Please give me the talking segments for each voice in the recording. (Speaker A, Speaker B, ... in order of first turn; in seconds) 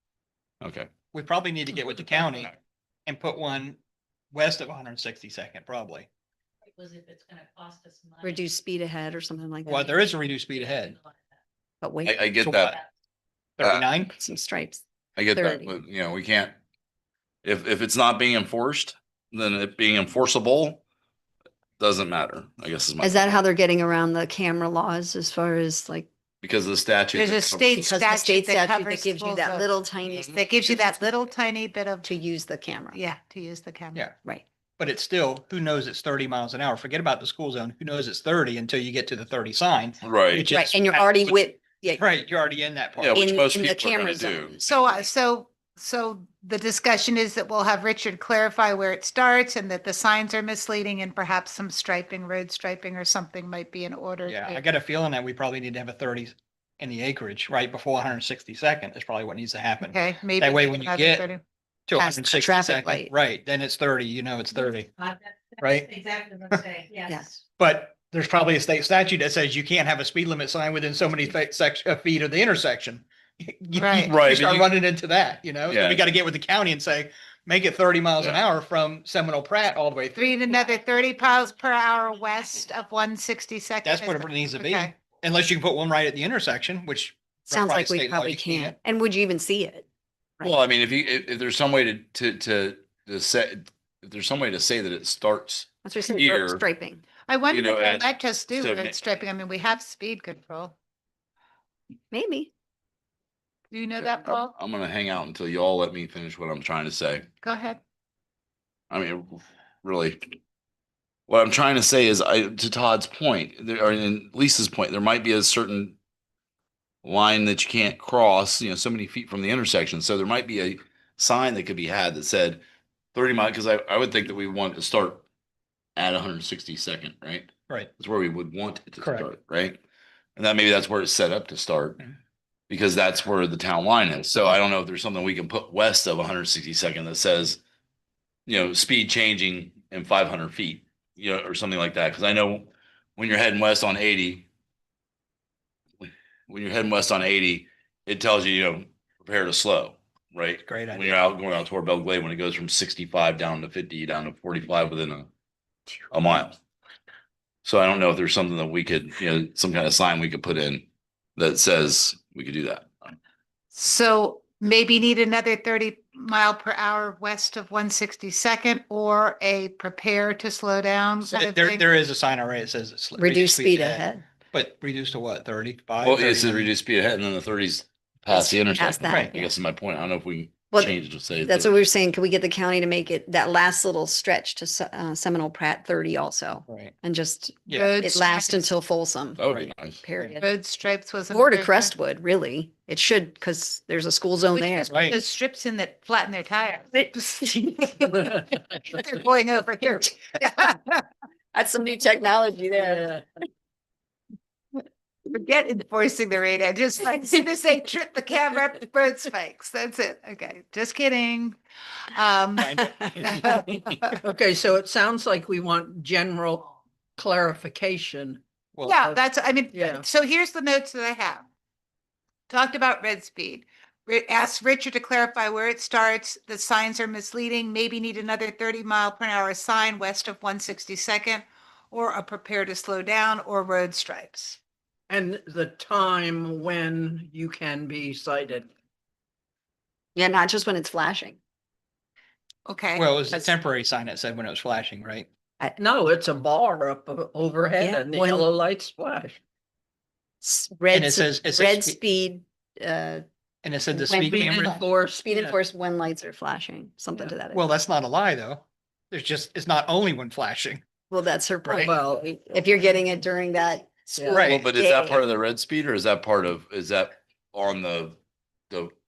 Speaker A: 0.6-0.9, 12.0-12.7, 13.6-13.8, 15.2-16.5, 17.4-20.8, 21.8-23.4, 26.4-27.7, 40.0-40.5, 43.0-44.5, 74.0-74.7, 75.7-76.0, 90.4-96.6, 97.5-98.9, 104.2-107.3, 108.9-110.2, 111.3-116.0, 117.0-122.6, 123.1-125.2, 126.0-129.8, 130.4-132.0, 132.7-137.6, 138.4-144.5, 146.0-155.3, 156.1-156.6, 157.6-163.1, 176.0-181.7, 189.4-190.0, 264.5-268.2
Speaker B: 1.1-2.5, 3.0-3.8, 4.3-6.1, 9.6-11.0, 12.4-12.8, 13.6-14.2, 34.8-43.2, 54.2-61.3, 61.9-64.9, 65.6-66.7, 67.6-80.4, 83.8-88.8, 129.0-129.3, 150.6-151.2, 171.2-176.7, 179.1-179.4, 186.7-186.9, 187.7-188.0, 189.4-190.4, 194.9-195.2, 212.6-213.4, 242.9-245.3, 250.9-252.0, 253.6-254.8, 257.1-260.8, 261.6-261.9, 264.3-264.7
Speaker C: 6.8-8.3, 10.5-11.1
Speaker D: 8.2-10.0, 11.8-12.2, 14.2-14.8, 15.3-15.7, 23.0-26.1, 27.8-31.1, 32.0-33.0, 40.5-42.0, 43.1-44.9, 62.1-63.1, 67.0-67.3, 87.5-89.8, 95.8-97.0, 102.1-102.5, 173.2-174.2, 178.3-179.5, 180.7-189.4, 190.0-190.4, 191.3-194.9, 201.5-203.2, 240.1-241.4, 247.8-248.4, 250.4-253.2, 253.9-254.5, 255.2-257.7, 261.1-265.2
Speaker E: 27.1-32.1, 32.9-34.0, 44.6-54.6, 59.8-61.4, 73.8-74.1, 80.1-84.9, 97.3-100.7, 103.7-104.5, 107.4-107.8, 163.7-171.8, 187.7-188.7, 190.4-191.9, 194.5-200.8, 205.3-211.6, 212.1-214.1, 218.8-221.4, 222.5-234.6, 242.7-243.1
Speaker F: 202.8-203.2, 214.2-218.4, 219.0-220.0, 235.1-238.7, 245.8-249.4, 254.1-255.5, 261.9-262.6